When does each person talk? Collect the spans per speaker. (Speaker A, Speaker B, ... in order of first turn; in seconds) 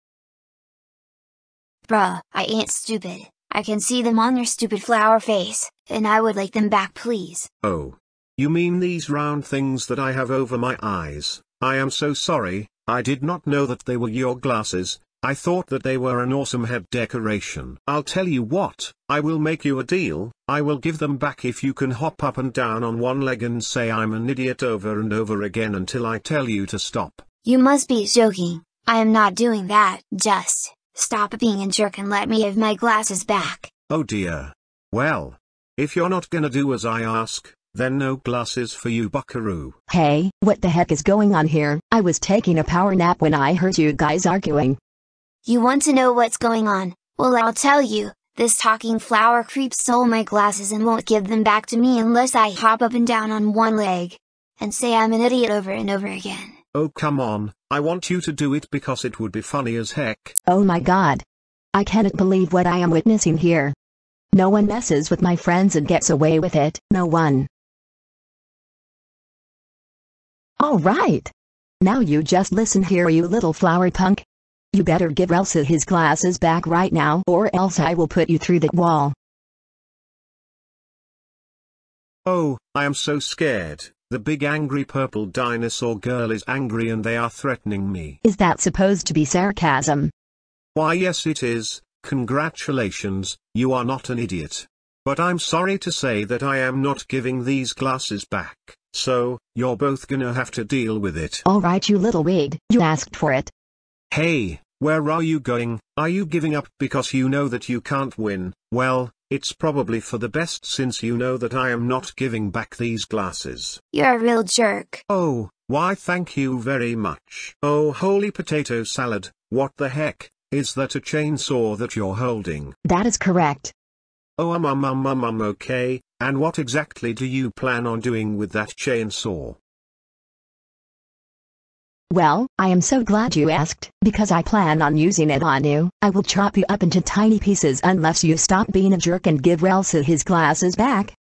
Speaker A: 1.9-7.5, 27.4-33.7, 45.5-56.6, 113.9-115.0
Speaker B: 7.6-27.2, 33.9-39.8, 56.7-60.4, 82.2-88.2, 90.7-101.5, 104.1-113.8, 115.1-122.8, 124.4-129.6
Speaker C: 39.9-44.8, 60.5-63.7, 64.3-67.5, 70.6-79.1, 88.2-90.1, 101.4-103.5, 122.8-123.7, 132.1-141.1